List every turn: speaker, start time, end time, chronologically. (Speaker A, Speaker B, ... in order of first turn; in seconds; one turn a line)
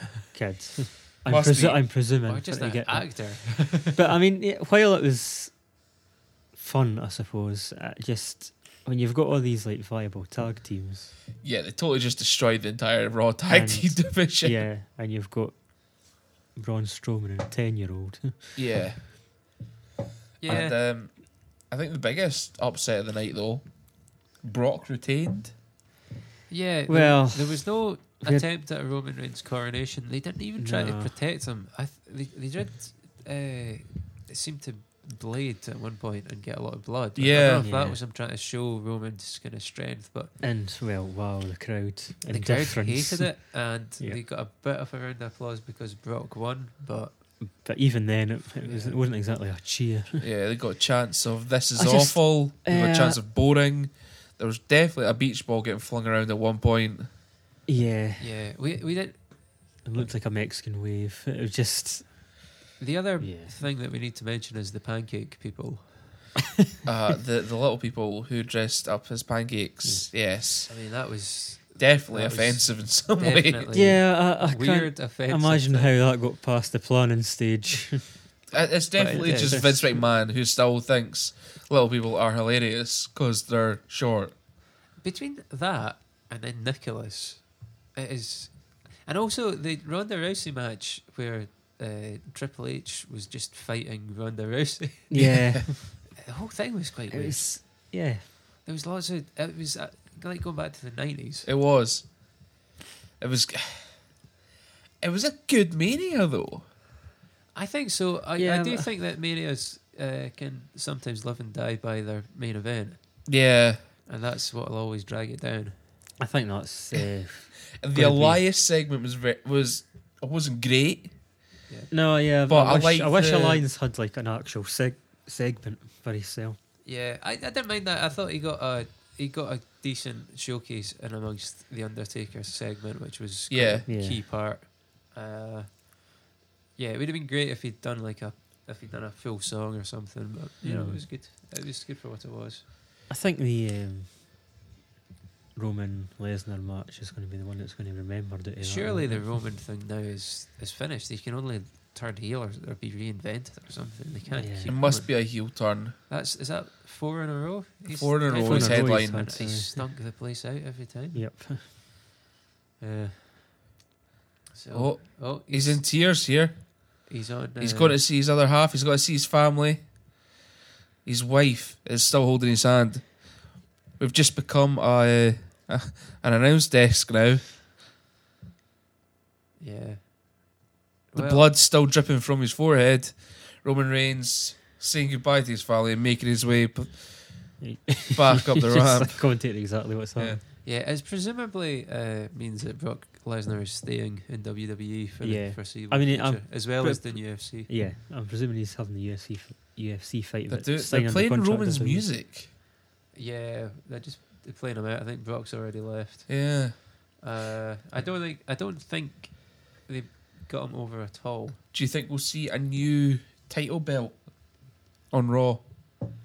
Speaker A: 0.1-5.6
Speaker B: 1.2-2.0
Speaker C: 2.3-4.0
Speaker A: 6.5-11.1
Speaker B: 11.4-14.6
Speaker A: 13.5-15.6
Speaker A: 16.5-18.6
Speaker B: 18.6-19.2
Speaker C: 20.4-20.8
Speaker B: 20.4-25.6
Speaker C: 26.5-40.3
Speaker A: 26.9-28.4
Speaker A: 30.6-31.1
Speaker B: 37.2-37.6
Speaker A: 37.6-38.0
Speaker A: 40.4-44.2
Speaker C: 42.3-47.2
Speaker A: 47.4-50.2
Speaker C: 48.6-49.1
Speaker B: 50.2-57.1
Speaker A: 51.7-53.2
Speaker A: 57.7-58.2
Speaker C: 58.2-59.4
Speaker A: 59.8-62.4
Speaker C: 62.8-66.3
Speaker A: 63.2-63.6
Speaker B: 66.8-70.7
Speaker C: 70.7-75.9
Speaker B: 71.8-73.7
Speaker A: 73.7-78.1
Speaker B: 78.5-84.3
Speaker C: 79.0-79.7
Speaker A: 79.1-80.0
Speaker C: 85.0-95.3
Speaker A: 95.1-96.0
Speaker B: 95.2-95.6
Speaker C: 96.2-97.9
Speaker A: 97.1-98.3
Speaker C: 98.6-101.5
Speaker B: 101.5-102.1
Speaker B: 103.2-104.1
Speaker B: 105.0-106.7
Speaker C: 107.5-113.2
Speaker A: 108.4-108.9
Speaker B: 113.3-113.9
Speaker C: 114.0-115.8
Speaker A: 116.2-118.4
Speaker B: 117.8-121.2
Speaker A: 121.9-126.6
Speaker B: 122.5-123.6
Speaker C: 126.8-136.0
Speaker B: 133.5-133.8
Speaker A: 133.9-134.2
Speaker C: 136.8-142.6
Speaker A: 140.6-141.1
Speaker A: 143.1-144.1
Speaker A: 145.5-149.4
Speaker C: 148.6-155.5
Speaker A: 154.3-154.8
Speaker B: 154.7-155.9
Speaker C: 156.1-161.2
Speaker B: 157.9-159.4
Speaker A: 158.3-159.9
Speaker A: 161.1-161.7
Speaker C: 162.8-163.5
Speaker C: 164.5-165.8
Speaker B: 164.7-166.7
Speaker C: 167.1-168.0
Speaker B: 167.6-169.8
Speaker B: 171.0-177.6
Speaker C: 179.6-180.0
Speaker C: 181.1-181.5
Speaker B: 181.2-187.6
Speaker A: 187.6-190.4
Speaker B: 188.1-189.6
Speaker C: 190.6-197.7
Speaker A: 195.2-202.1
Speaker B: 200.5-202.5
Speaker C: 203.1-206.7
Speaker B: 206.3-206.8
Speaker C: 207.2-211.6
Speaker B: 211.7-214.6
Speaker B: 215.1-215.6